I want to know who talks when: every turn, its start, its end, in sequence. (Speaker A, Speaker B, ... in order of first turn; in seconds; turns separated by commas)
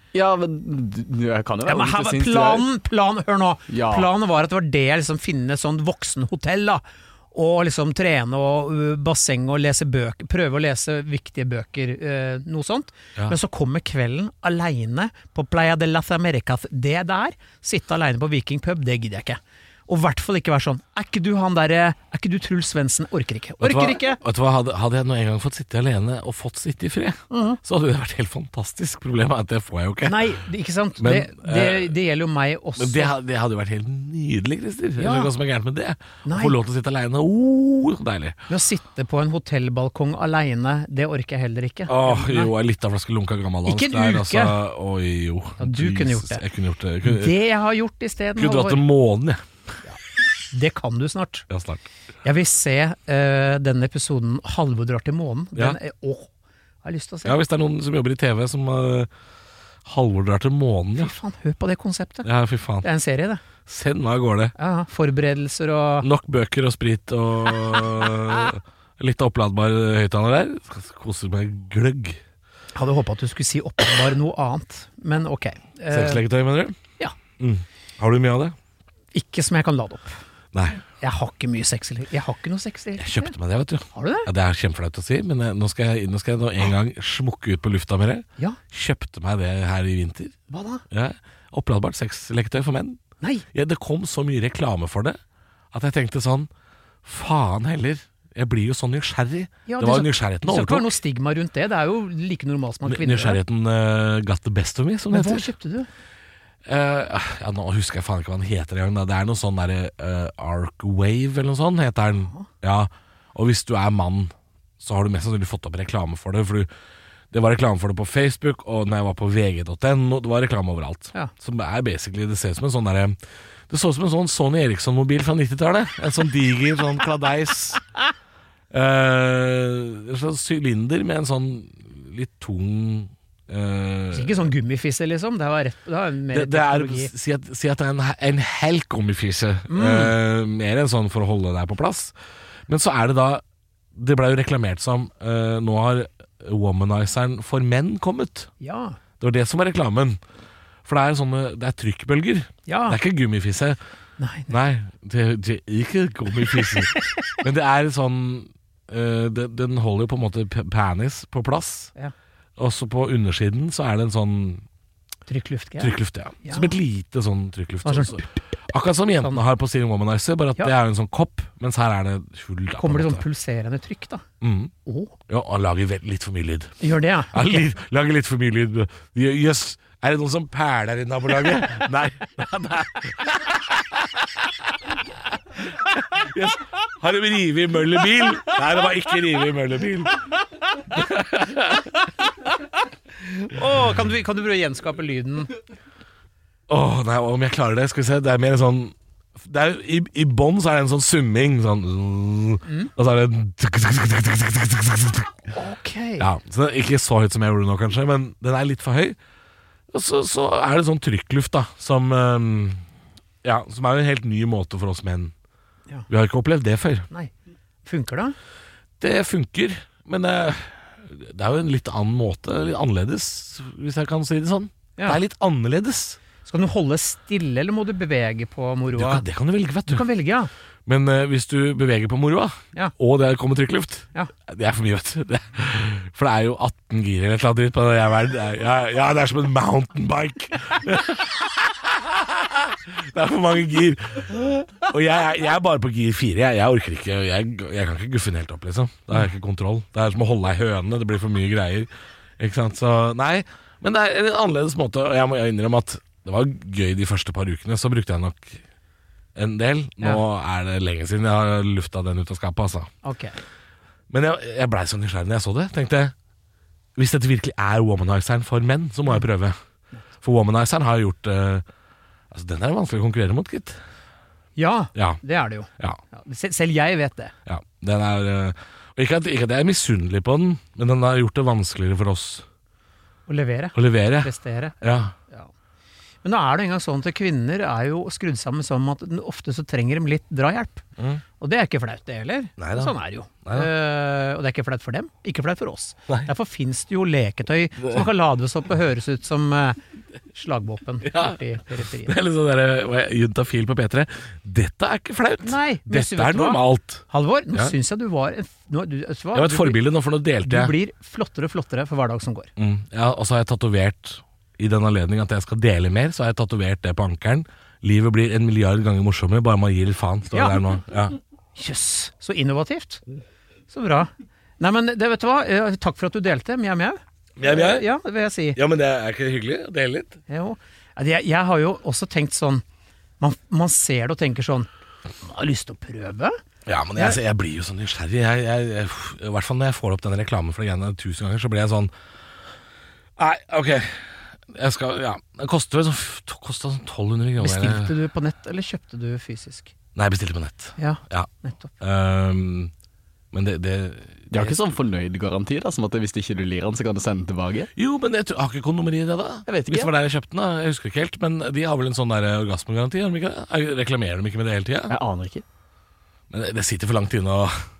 Speaker A: 0.1-2.6, Speaker B: 1.6-24.2, Speaker A: 3.7-4.1, Speaker C: 23.6-30.3, Speaker B: 27.3-27.6, Speaker B: 30.0-33.1, Speaker C: 31.0-32.0, Speaker C: 32.8-38.4, Speaker B: 35.0-35.3, Speaker B: 36.2-36.5, Speaker B: 38.5-42.5, Speaker C: 41.9-47.3, Speaker B: 43.6-44.5, Speaker B: 45.6-46.4, Speaker B: 47.0-48.8, Speaker C: 48.4-49.5, Speaker B: 50.5-51.5, Speaker C: 51.5-51.8, Speaker B: 52.2-56.3, Speaker B: 56.8-57.4, Speaker C: 57.2-59.1, Speaker C: 59.8-61.1, Speaker B: 61.0-62.3, Speaker C: 62.2-62.9, Speaker B: 62.8-63.4, Speaker C: 63.6-64.5, Speaker B: 64.6-66.1, Speaker C: 66.0-72.2, Speaker B: 72.7-76.2, Speaker C: 75.9-76.8, Speaker C: 77.4-78.5, Speaker B: 79.1-80.1, Speaker C: 80.5-80.8, Speaker B: 81.0-83.3, Speaker C: 83.0-90.3, Speaker B: 83.9-84.3, Speaker B: 90.5-90.8, Speaker C: 90.9-93.0, Speaker B: 93.2-93.5, Speaker C: 93.5-95.2, Speaker C: 95.7-96.5, Speaker C: 97.0-101.0, Speaker B: 99.7-103.4, Speaker C: 102.8-105.5, Speaker B: 105.1-105.9, Speaker C: 106.6-116.7, Speaker C: 117.3-123.2, Speaker C: 123.7-127.8, Speaker C: 128.7-134.5, Speaker B: 134.1-137.1, Speaker C: 136.3-142.1, Speaker B: 139.7-140.1, Speaker C: 142.7-143.4, Speaker C: 143.9-148.5, Speaker B: 148.6-149.0, Speaker C: 149.2-150.2, Speaker C: 150.8-153.8, Speaker B: 152.7-153.0, Speaker B: 154.2-154.5, Speaker C: 154.5-161.9, Speaker B: 156.5-157.2, Speaker C: 162.6-164.6, Speaker B: 165.3-166.7, Speaker C: 165.8-173.2, Speaker B: 167.8-168.6, Speaker B: 172.8-174.2, Speaker C: 174.4-174.7, Speaker B: 174.8-175.1, Speaker C: 175.3-184.7, Speaker B: 176.8-177.6, Speaker C: 185.9-190.3, Speaker C: 190.9-191.9, Speaker B: 192.2-192.5, Speaker B: 193.2-195.5, Speaker C: 196.7-205.5, Speaker B: 202.7-202.9, Speaker B: 205.5-206.3, Speaker C: 206.2-209.2, Speaker C: 209.9-212.8, Speaker C: 213.4-215.3, Speaker C: 216.1-217.1, Speaker B: 217.8-218.3, Speaker C: 219.0-226.2, Speaker B: 226.4-229.2, Speaker C: 228.9-230.1, Speaker B: 229.9-230.5, Speaker C: 230.8-258.6, Speaker C: 259.3-262.9, Speaker B: 263.0-263.4, Speaker C: 264.1-266.1, Speaker C: 266.9-269.6, Speaker C: 270.2-271.6, Speaker C: 272.3-273.8, Speaker B: 274.6-277.3, Speaker C: 274.9-275.2, Speaker C: 277.4-282.4, Speaker B: 283.3-285.5, Speaker C: 283.7-285.1, Speaker B: 286.2-290.9, Speaker B: 291.4-299.8, Speaker C: 292.6-293.7, Speaker C: 297.8-298.1, Speaker B: 300.3-302.1, Speaker C: 301.0-307.7, Speaker B: 305.4-309.8, Speaker C: 309.3-310.7, Speaker B: 310.4-312.5, Speaker C: 312.6-321.2, Speaker B: 320.3-320.6, Speaker B: 321.6-323.0, Speaker B: 323.7-328.6, Speaker C: 327.4-327.9, Speaker C: 328.5-330.2, Speaker B: 330.3-332.6, Speaker B: 333.2-334.7, Speaker B: 335.2-336.4, Speaker C: 336.6-341.9, Speaker C: 343.2-347.9, Speaker B: 347.4-349.7, Speaker C: 349.9-352.7, Speaker B: 350.8-351.7, Speaker C: 353.3-354.6, Speaker A: 354.3-357.7, Speaker C: 357.7-364.9, Speaker A: 359.5-359.9, Speaker A: 364.9-365.4, Speaker C: 366.3-367.5